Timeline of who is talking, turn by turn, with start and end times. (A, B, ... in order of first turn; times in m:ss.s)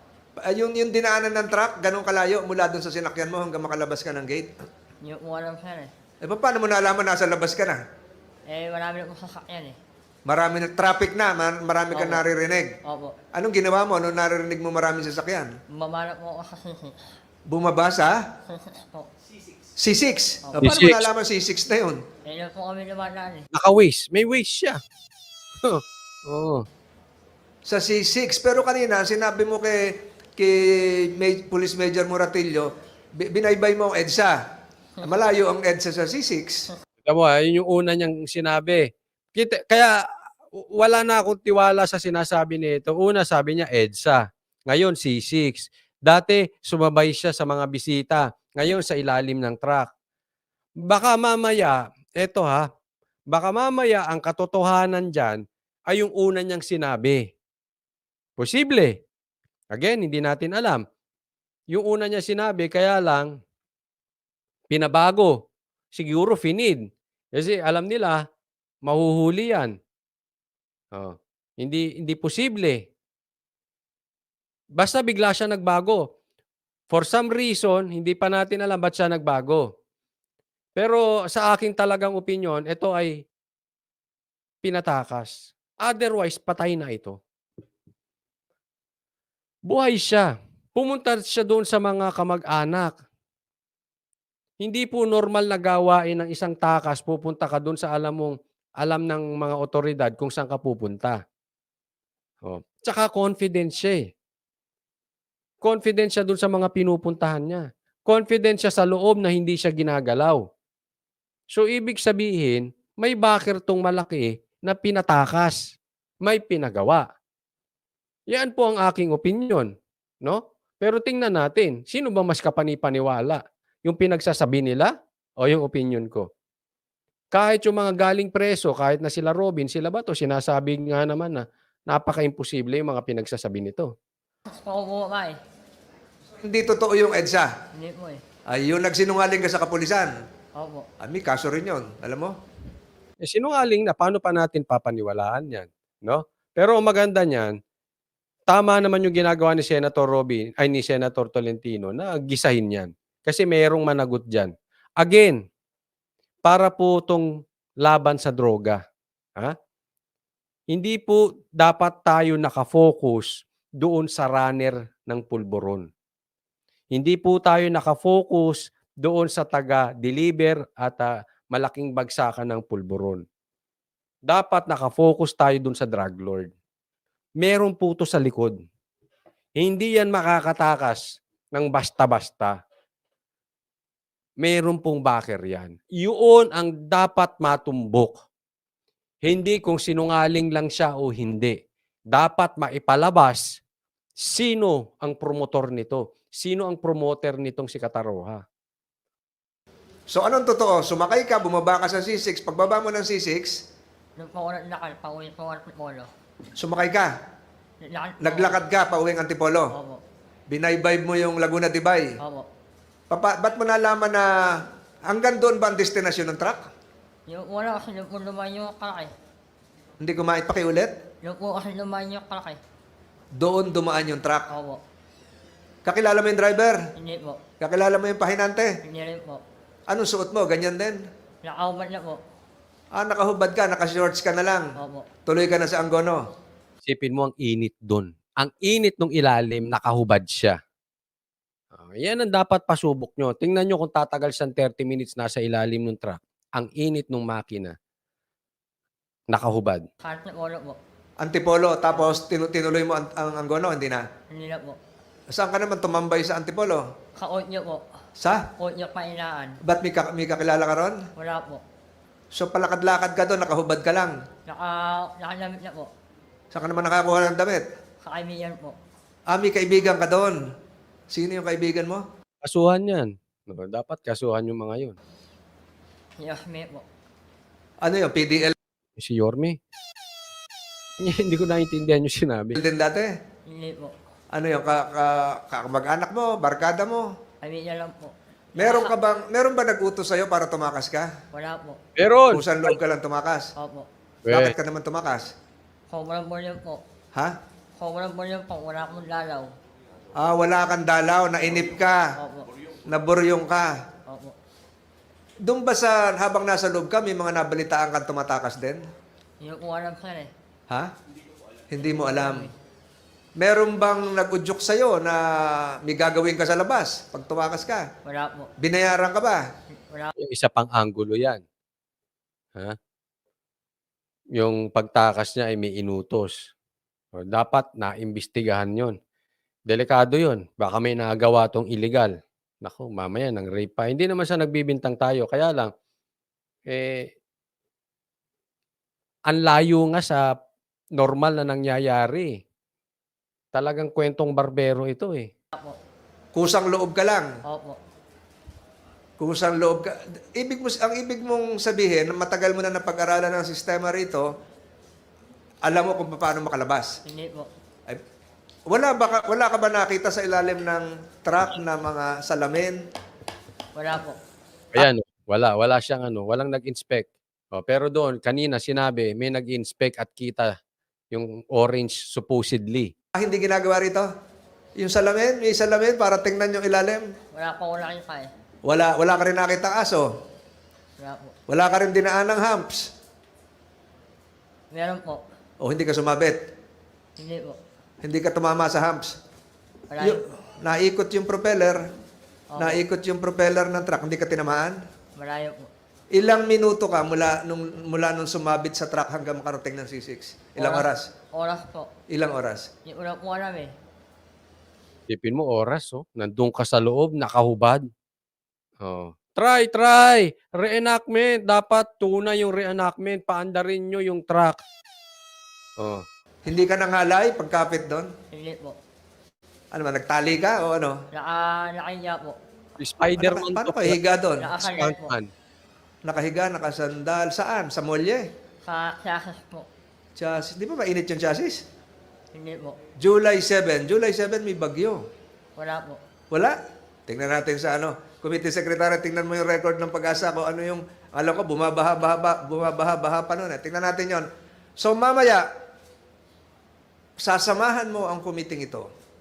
0:00.4-0:04.5 A
0:05.0-0:05.9 B
0:06.2-0:07.8 A
0:08.5-0:09.8 B
0:10.2-0:12.8 A
0:11.9-0:12.2 B
0:12.8-0:13.2 B
0:13.3-0:15.5 A
0:15.7-0:17.1 B
0:17.5-0:18.2 A
0:18.5-0:19.1 B
0:19.8-0:22.0 A
0:20.4-0:20.7 B
0:20.6-0:21.1 C
0:22.2-0:23.5 B
0:23.5-0:24.8 C
0:25.6-0:26.6 C
0:27.6-0:34.4 A
0:35.0-0:36.7 A
0:37.0-0:40.0 C
0:40.5-0:49.9 C
0:50.8-0:52.7 C
0:53.3-0:57.2 C
0:58.4-0:59.0 C
0:59.7-1:00.8 C
1:01.7-1:03.3 C
1:04.7-1:05.4 C
1:05.9-1:06.8 C
1:07.4-1:08.2 C
1:08.8-1:09.7 C
1:10.9-1:12.8 C
1:14.8-1:16.0 C
1:16.9-1:19.7 C
1:20.8-1:23.2 C
1:24.6-1:27.2 C
1:29.7-1:32.9 C
1:34.6-1:41.2 C
1:42.4-1:44.1 C
1:45.6-1:50.4 C
1:51.5-1:57.0 C
1:58.3-1:59.7 C
2:00.2-2:06.3 C
2:07.3-2:13.9 C
2:14.5-2:15.4 B
2:16.4-2:17.5 A
2:17.7-2:18.2 B
2:18.5-2:20.1 A
2:20.6-2:20.8 B
2:21.0-2:22.3 A
2:23.2-2:27.6 C
2:28.5-2:35.4 C
2:36.4-2:37.3 C
2:37.8-2:38.8 C
2:40.7-2:45.9 C
2:46.9-2:53.2 C
2:54.3-2:56.5 C
2:57.4-2:58.6 C
2:59.6-3:02.6 C
3:04.4-3:08.2 C
3:09.2-3:11.6 C
3:12.1-3:13.6 C
3:14.2-3:18.4 C
3:20.1-3:23.5 A
3:24.2-3:26.1 B
3:26.6-3:27.1 A
3:27.8-3:28.6 B
3:28.2-3:29.7 A
3:29.7-3:30.0 B
3:30.5-3:32.1 A
3:32.2-3:32.5 B
3:33.1-3:36.7 A
3:37.3-3:39.1 B
3:40.0-3:40.9 A
3:41.2-3:42.6 B
3:43.3-3:44.5 A
3:44.5-3:44.8 B
3:45.8-3:46.8 A
3:47.0-3:47.4 B
3:47.6-3:48.7 A
3:48.8-3:49.4 B
3:49.9-3:51.0 A
3:51.4-3:52.2 B
3:53.0-3:54.7 A
3:54.8-3:55.1 B
3:55.2-3:56.2 A
3:56.8-4:00.6 C
4:01.7-4:07.7 C
4:09.3-4:09.8 C
4:10.0-4:10.8 B
4:11.2-4:14.0 A
4:11.9-4:12.2 B
4:14.3-4:14.8 B
4:15.3-4:16.8 A
4:17.2-4:17.8 B
4:18.2-4:18.5 A
4:18.6-4:19.6 B
4:19.6-4:21.0 A
4:21.2-4:21.6 B
4:22.3-4:24.1 A
4:24.5-4:25.9 B
4:26.5-4:27.6 A
4:28.0-4:28.8 B
4:29.3-4:30.4 A
4:31.1-4:32.0 A
4:32.4-4:35.0 C
4:36.2-4:36.8 B
4:37.8-4:38.6 A
4:39.0-4:39.6 C
4:41.0-4:42.6 C
4:42.5-4:43.1 A
4:43.5-4:43.9 B
4:44.3-4:47.1 A
4:47.4-4:49.0 B
4:48.6-4:51.1 A
4:51.3-4:51.8 B
4:52.0-4:52.5 C
4:52.3-4:53.5 A
4:53.6-4:53.9 B
4:54.2-4:54.5 C
4:54.3-4:55.3 A
4:55.9-4:56.8 B
4:57.8-4:59.5 B
5:00.1-5:02.0 A
5:02.2-5:02.5 B
5:02.9-5:03.7 A
5:04.1-5:04.3 B
5:05.4-5:08.8 A
5:09.4-5:10.3 B
5:11.7-5:12.5 A
5:11.8-5:12.5 B
5:13.4-5:17.9 A
5:18.0-5:18.5 B
5:18.6-5:19.4 A
5:20.2-5:21.4 C
5:24.4-5:26.3 C
5:27.1-5:29.0 C
5:29.7-5:35.7 C
5:36.7-5:37.1 C
5:39.3-5:40.3 C
5:41.0-5:42.4 C
5:43.5-5:45.3 C
5:46.3-5:47.3 A
5:47.4-5:47.8 B
5:49.2-5:54.2 A
5:55.6-5:57.0 A
5:57.0-5:57.5 B
5:58.7-6:02.8 A
6:03.7-6:04.2 B
6:04.7-6:10.5 C
6:11.1-6:12.9 C
6:13.1-6:14.1 A
6:14.8-6:17.0 A
6:17.3-6:18.3 B
6:18.6-6:20.0 A
6:21.0-6:21.3 B
6:21.5-6:22.9 A
6:24.7-6:25.2 B
6:25.6-6:26.4 A
6:27.2-6:27.6 B
6:28.0-6:29.2 A
6:29.9-6:30.2 B
6:30.0-6:31.8 A
6:32.5-6:32.8 B
6:32.6-6:34.8 A
6:35.2-6:35.7 B
6:36.1-6:41.1 A
6:40.6-6:41.9 B
6:42.1-6:42.7 A
6:42.8-6:43.7 B
6:45.1-6:47.9 C
6:48.8-6:54.6 C
6:55.8-6:56.0 C
6:56.4-6:58.1 A
6:58.3-6:58.8 B
6:59.7-7:01.0 A
7:01.1-7:02.4 B
7:02.8-7:04.0 C
7:03.2-7:04.5 A
7:04.4-7:05.1 B
7:04.6-7:05.3 C
7:06.0-7:08.2 A
7:08.6-7:09.7 B
7:10.2-7:11.6 A
7:12.3-7:12.8 B
7:13.0-7:15.0 A
7:15.6-7:16.0 B
7:17.1-7:24.2 A
7:24.8-7:25.4 A
7:27.2-7:28.8 A